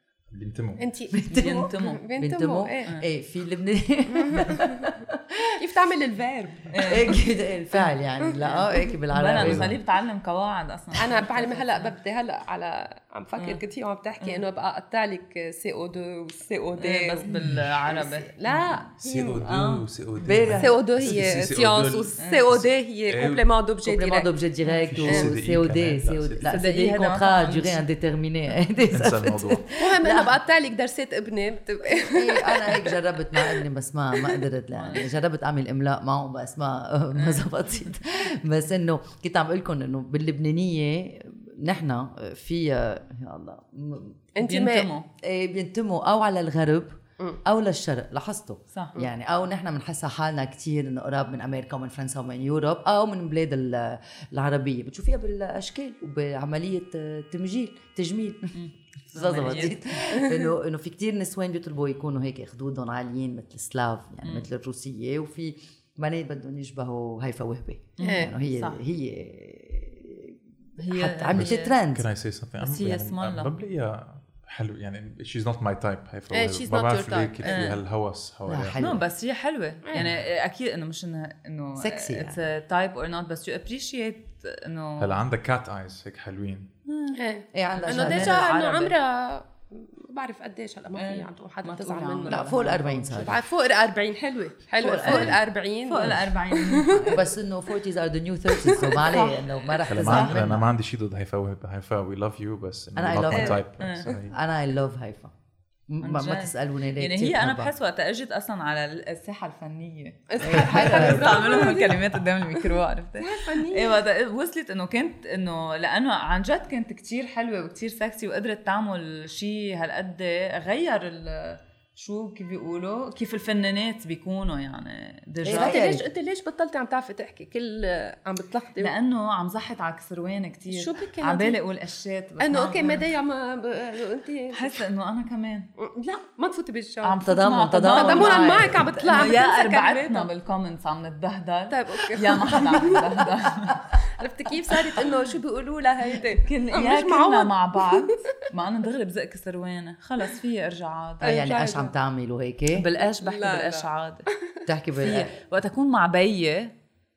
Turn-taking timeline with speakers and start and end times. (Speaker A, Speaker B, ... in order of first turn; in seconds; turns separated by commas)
Speaker A: 0.3-0.9, Speaker B: 0.8-2.9, Speaker C: 1.1-5.6, Speaker D: 1.3-2.0, Speaker B: 4.1-4.9, Speaker B: 5.6-7.2, Speaker D: 6.7-7.2, Speaker C: 6.8-9.8, Speaker B: 8.2-8.5, Speaker D: 9.1-11.9, Speaker A: 9.3-9.7, Speaker B: 11.0-17.3, Speaker D: 16.8-18.3, Speaker B: 18.0-19.4, Speaker A: 19.0-23.4, Speaker D: 19.4-19.8, Speaker C: 20.2-20.8, Speaker B: 20.6-24.3, Speaker D: 22.2-22.5, Speaker C: 23.8-30.3, Speaker A: 24.9-26.5, Speaker B: 25.1-25.3, Speaker D: 26.4-27.9, Speaker A: 28.9-29.7, Speaker B: 29.8-32.9, Speaker C: 31.9-44.2, Speaker D: 34.8-35.1, Speaker D: 37.2-37.5, Speaker B: 44.4-44.9, Speaker D: 44.4-45.1, Speaker C: 45.2-58.6, Speaker D: 58.5-59.8, Speaker C: 59.1-70.4, Speaker B: 60.1-60.5, Speaker D: 68.0-68.8, Speaker B: 68.0-68.3, Speaker D: 70.8-71.7, Speaker C: 70.9-72.1, Speaker A: 71.3-78.8, Speaker D: 72.6-73.5, Speaker B: 76.3-77.7, Speaker D: 77.4-77.8, Speaker C: 78.5-79.0, Speaker D: 78.8-85.2, Speaker C: 81.8-82.4, Speaker A: 85.0-86.7, Speaker D: 86.9-87.2, Speaker B: 87.1-92.5, Speaker C: 87.5-88.5, Speaker D: 87.8-89.0, Speaker D: 91.0-93.4, Speaker C: 92.3-93.4, Speaker B: 93.2-97.1, Speaker C: 94.8-95.4, Speaker D: 95.0-95.3, Speaker D: 95.9-97.3, Speaker C: 97.1-100.7, Speaker B: 98.5-99.2, Speaker D: 99.0-100.4, Speaker A: 99.9-104.3, Speaker C: 103.0-105.3, Speaker B: 103.3-103.6, Speaker D: 103.8-104.1, Speaker C: 105.9-107.7, Speaker D: 106.0-126.0, Speaker B: 110.3-112.0, Speaker C: 110.4-111.6, Speaker B: 113.2-114.0, Speaker C: 125.4-126.0, Speaker B: 125.5-128.9, Speaker D: 128.8-133.1, Speaker B: 130.7-131.6, Speaker B: 132.4-134.8, Speaker D: 134.5-135.7, Speaker B: 135.8-137.2, Speaker D: 137.0-143.9, Speaker C: 137.2-139.3, Speaker B: 137.9-140.3, Speaker B: 141.7-143.2, Speaker B: 144.1-148.1, Speaker D: 146.3-151.4, Speaker B: 151.2-151.9, Speaker C: 151.2-152.9, Speaker D: 152.7-154.3, Speaker B: 153.2-153.9, Speaker C: 154.7-155.3, Speaker D: 155.0-156.7